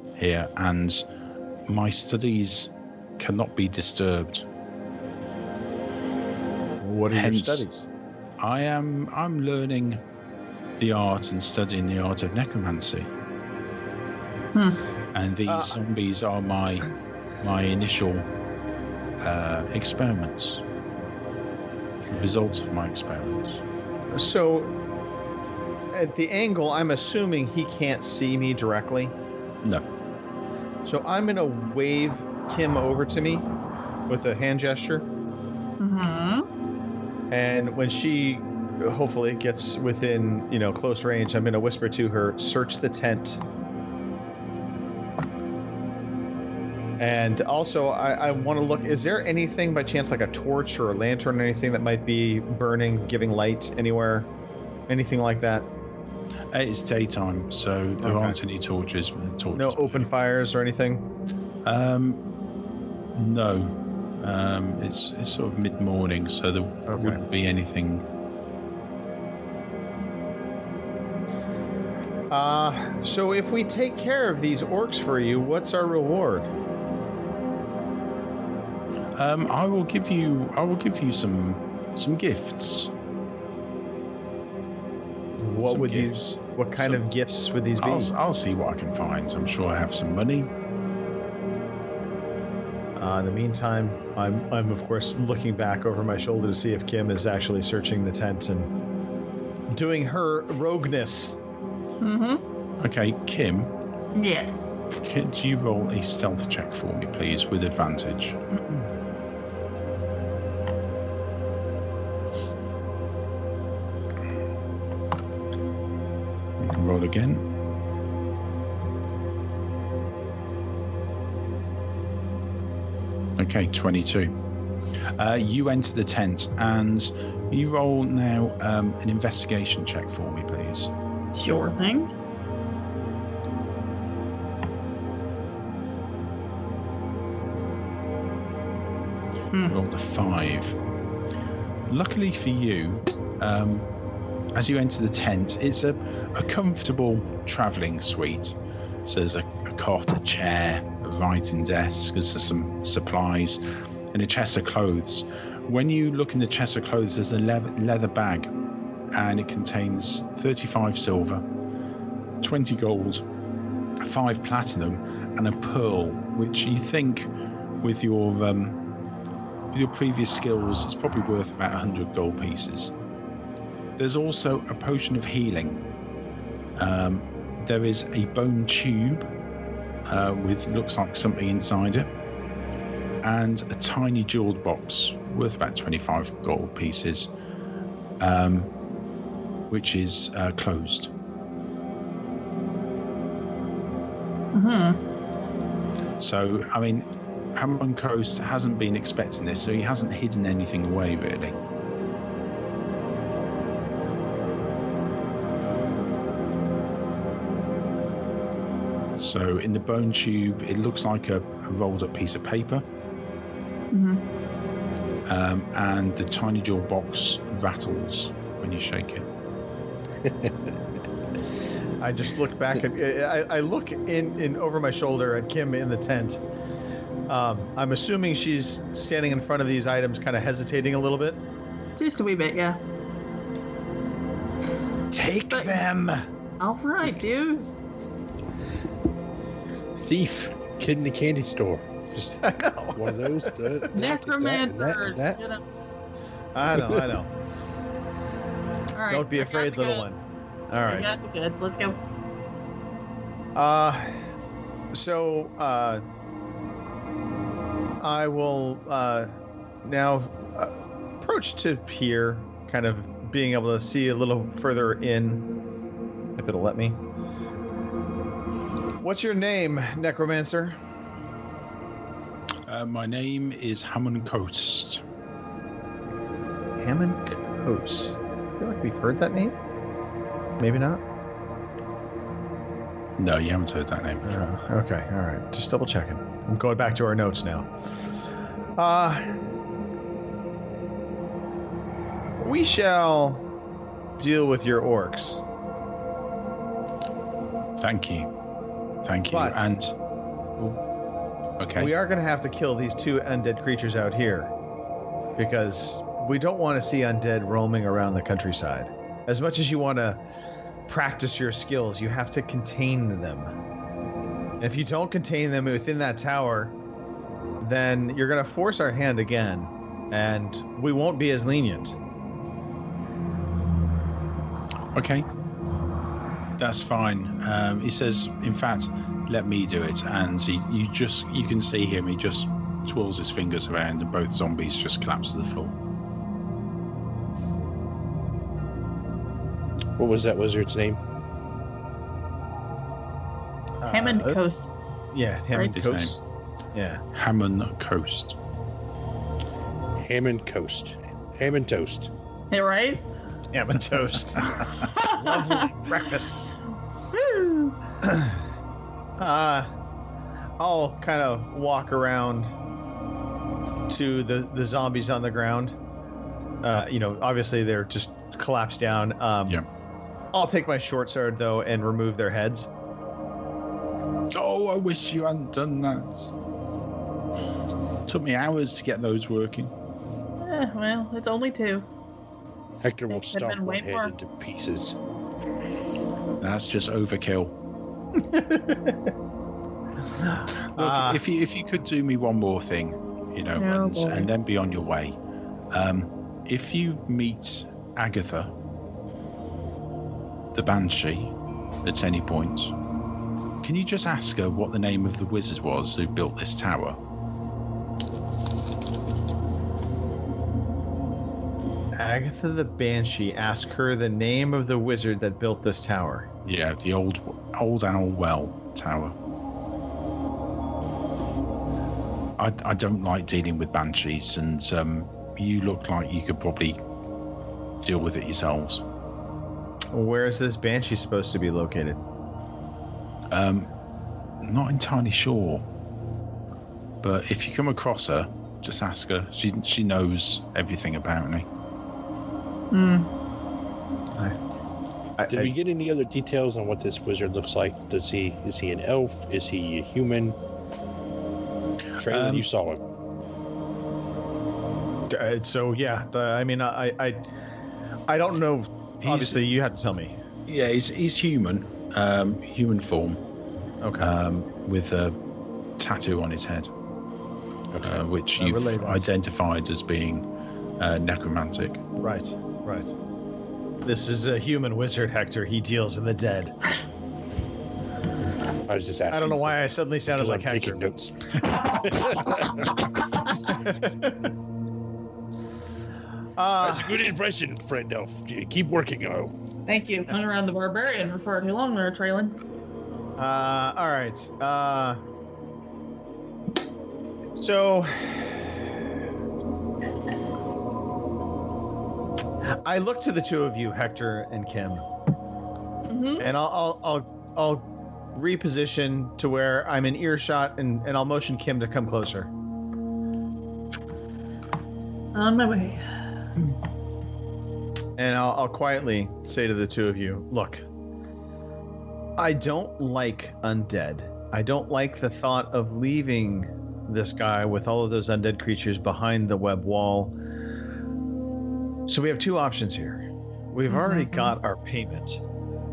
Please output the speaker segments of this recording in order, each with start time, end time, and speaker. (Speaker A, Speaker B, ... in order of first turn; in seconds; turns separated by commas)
Speaker A: 0.2-1.0, Speaker A: 1.7-4.5, Speaker B: 6.8-7.9, Speaker A: 7.1-7.7, Speaker A: 8.4-10.0, Speaker A: 10.8-13.1, Speaker A: 15.1-16.9, Speaker B: 15.5-15.8, Speaker A: 17.4-18.3, Speaker A: 19.2-20.6, Speaker A: 22.1-23.6, Speaker B: 24.1-24.8, Speaker B: 25.9-29.1, Speaker B: 30.9-33.5, Speaker B: 34.1-35.1, Speaker C: 35.8-36.5, Speaker B: 37.3-43.4, Speaker B: 47.0-54.3, Speaker B: 54.9-55.7, Speaker A: 56.5-60.1, Speaker B: 58.0-58.4, Speaker B: 59.6-61.1, Speaker A: 61.6-62.2, Speaker A: 63.1-68.1, Speaker B: 66.9-67.2, Speaker B: 72.3-76.5, Speaker A: 79.2-82.9, Speaker B: 85.4-88.1, Speaker A: 85.6-87.0, Speaker A: 87.8-90.5, Speaker B: 93.0-98.7, Speaker B: 99.7-101.4, Speaker C: 102.0-102.4, Speaker A: 102.8-103.7, Speaker C: 104.2-104.8, Speaker A: 104.9-108.4, Speaker A: 116.6-117.5, Speaker A: 123.4-124.4, Speaker A: 125.2-130.9, Speaker C: 131.3-132.1, Speaker A: 139.7-140.8, Speaker A: 141.9-143.9, Speaker A: 144.6-158.5, Speaker A: 159.1-161.5, Speaker A: 162.4-163.3, Speaker A: 164.0-167.3, Speaker A: 167.8-168.8, Speaker A: 169.7-172.9, Speaker A: 174.0-175.8, Speaker A: 176.8-179.3, Speaker A: 180.1-182.1, Speaker A: 183.2-187.3, Speaker A: 188.2-188.7, Speaker A: 189.7-191.1, Speaker C: 194.5-195.0, Speaker A: 196.2-201.6, Speaker A: 209.2-212.8, Speaker C: 213.9-214.2, Speaker A: 215.3-219.3, Speaker D: 220.2-220.5, Speaker B: 222.0-226.4, Speaker B: 227.3-231.4, Speaker C: 232.0-232.8, Speaker B: 235.1-236.3, Speaker C: 235.5-235.8, Speaker C: 236.6-237.7, Speaker D: 240.0-245.4, Speaker B: 242.4-243.8, Speaker C: 243.9-245.6, Speaker B: 246.6-247.3, Speaker C: 248.9-250.1, Speaker B: 249.1-250.2, Speaker B: 250.7-251.1, Speaker C: 250.9-252.0, Speaker B: 253.6-254.2, Speaker B: 254.9-256.0, Speaker B: 258.0-265.5, Speaker B: 266.4-267.0, Speaker B: 269.0-270.8, Speaker A: 272.7-275.0, Speaker B: 276.8-279.6, Speaker B: 280.6-281.0, Speaker A: 283.2-284.5, Speaker B: 284.2-287.7, Speaker B: 288.8-289.3, Speaker B: 292.4-293.5, Speaker B: 294.2-295.4, Speaker A: 297.8-298.3, Speaker A: 299.0-299.9, Speaker B: 299.3-299.8, Speaker A: 301.6-301.9, Speaker B: 301.8-304.5, Speaker B: 305.4-310.2, Speaker B: 310.9-313.5, Speaker B: 314.6-316.8, Speaker B: 317.6-322.0, Speaker A: 324.9-325.3, Speaker A: 326.6-335.8, Speaker D: 340.0-341.0, Speaker B: 343.8-344.4, Speaker C: 343.9-344.7, Speaker B: 345.1-346.2, Speaker A: 345.7-346.2, Speaker B: 346.7-347.0, Speaker A: 347.1-348.4, Speaker D: 350.0-352.1, Speaker C: 352.5-353.1, Speaker B: 353.5-356.5, Speaker C: 354.9-355.5, Speaker C: 357.1-357.7, Speaker B: 358.0-358.4, Speaker B: 359.2-359.7, Speaker B: 360.6-362.6, Speaker B: 363.9-365.8, Speaker B: 366.6-369.6, Speaker B: 370.3-372.7, Speaker A: 374.3-376.3, Speaker A: 378.1-379.7, Speaker C: 380.4-381.9, Speaker D: 382.8-385.0, Speaker C: 383.1-384.1, Speaker A: 386.4-387.6, Speaker B: 388.2-389.0, Speaker B: 390.1-391.2, Speaker A: 390.8-395.2, Speaker C: 393.6-394.3, Speaker A: 395.7-398.5, Speaker A: 400.5-402.7, Speaker A: 403.6-407.0, Speaker B: 412.0-416.3, Speaker A: 416.4-419.2, Speaker A: 422.4-426.8, Speaker A: 427.8-428.8, Speaker B: 429.9-432.0, Speaker A: 433.3-433.7, Speaker A: 434.4-435.6, Speaker A: 437.0-441.5, Speaker C: 442.7-443.1, Speaker B: 445.2-445.5, Speaker D: 445.3-450.4, Speaker D: 452.0-452.8, Speaker A: 452.0-452.5, Speaker B: 455.1-457.3, Speaker B: 458.1-460.1, Speaker A: 459.0-459.4, Speaker A: 460.5-463.2, Speaker B: 463.8-464.1, Speaker A: 464.0-465.2, Speaker A: 465.8-466.7, Speaker D: 467.7-468.0, Speaker A: 467.8-470.3, Speaker B: 468.4-469.1, Speaker A: 470.8-471.8, Speaker B: 472.0-472.9, Speaker B: 473.8-476.6, Speaker D: 478.7-482.7, Speaker B: 479.1-480.8, Speaker B: 483.5-484.2, Speaker B: 486.4-487.0, Speaker D: 486.6-489.3, Speaker C: 489.7-492.4, Speaker B: 493.2-495.0, Speaker B: 497.4-498.5, Speaker B: 502.6-504.9, Speaker C: 505.9-506.2, Speaker B: 506.2-512.3, Speaker C: 515.1-515.9, Speaker B: 518.0-520.7, Speaker B: 522.2-530.1, Speaker B: 531.9-535.2, Speaker C: 533.7-534.3